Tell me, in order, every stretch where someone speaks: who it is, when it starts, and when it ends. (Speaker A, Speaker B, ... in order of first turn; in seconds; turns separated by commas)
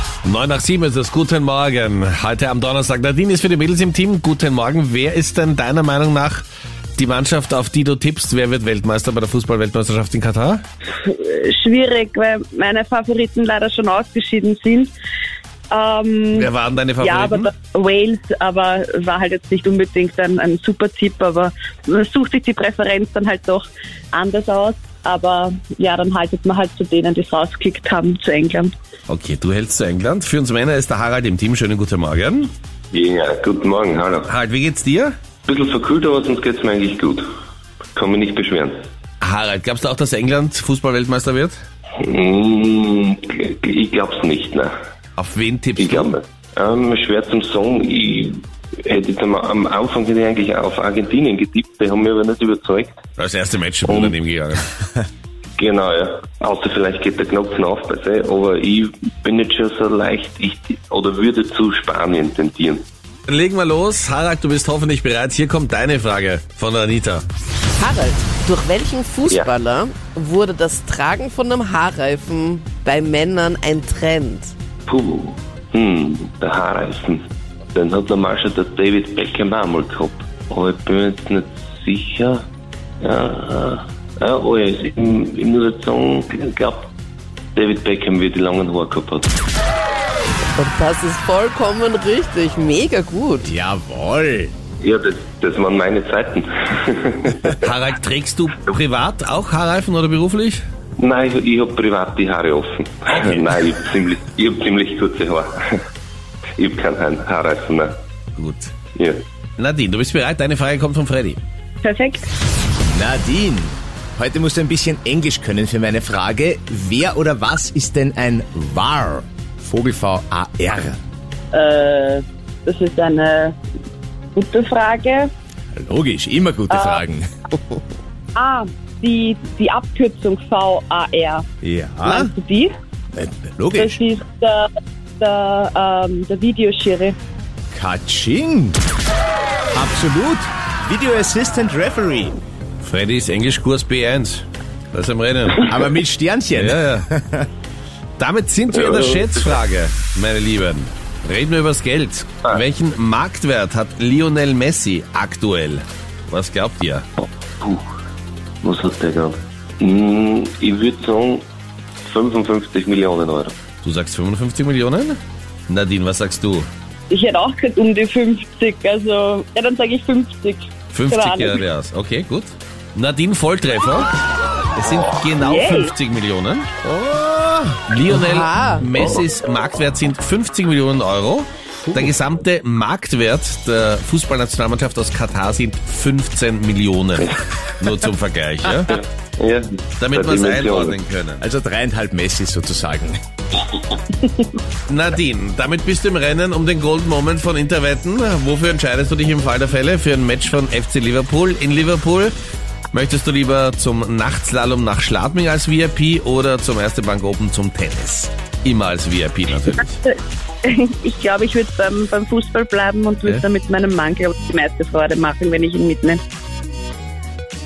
Speaker A: 0.2-6.5, Speaker A: 7.0-10.6, Speaker B: 11.0-14.9, Speaker B: 15.7-16.5, Speaker A: 16.3-17.5, Speaker B: 17.0-28.7, Speaker A: 29.1-32.5, Speaker C: 32.9-34.3, Speaker A: 34.3-35.1, Speaker C: 35.5-37.2, Speaker C: 38.0-38.8, Speaker A: 39.2-41.6, Speaker C: 42.0-44.7, Speaker A: 45.2-46.1, Speaker C: 45.8-53.0, Speaker A: 53.2-54.7, Speaker C: 53.9-54.2, Speaker C: 55.6-62.9, Speaker A: 63.3-67.2, Speaker D: 67.8-74.5, Speaker C: 74.9-82.5, Speaker C: 83.0-86.9, Speaker C: 87.5-89.3, Speaker D: 90.5-93.5, Speaker E: 93.4-94.5, Speaker C: 94.8-97.6, Speaker A: 97.6-100.6, Speaker C: 101.0-105.8, Speaker A: 103.1-103.6, Speaker C: 106.6-108.0, Speaker A: 108.4-108.7, Speaker C: 108.9-109.2, Speaker A: 109.6-111.4, Speaker B: 111.8-112.3, Speaker E: 112.9-121.0, Speaker B: 121.5-123.6, Speaker B: 124.3-125.3, Speaker E: 125.7-127.3, Speaker B: 126.7-127.0, Speaker B: 128.3-131.5, Speaker E: 131.6-132.3, Speaker B: 132.0-132.7, Speaker E: 133.1-134.0, Speaker B: 133.8-137.2, Speaker E: 137.7-138.8, Speaker E: 139.7-142.4, Speaker A: 142.8-145.8, Speaker E: 145.6-147.5, Speaker A: 146.5-147.1, Speaker A: 148.2-157.1, Speaker C: 148.7-149.6, Speaker C: 157.2-157.8, Speaker C: 158.6-161.4, Speaker C: 162.0-163.6, Speaker A: 163.8-166.7, Speaker B: 167.1-171.6, Speaker A: 170.9-174.1, Speaker A: 174.8-176.7, Speaker B: 175.4-175.9, Speaker E: 176.8-177.8, Speaker A: 177.9-189.0, Speaker D: 178.1-179.0, Speaker C: 188.9-191.0, Speaker A: 190.0-191.4, Speaker E: 191.4-193.2, Speaker A: 194.9-202.3, Speaker A: 202.9-210.0, Speaker B: 210.0-216.2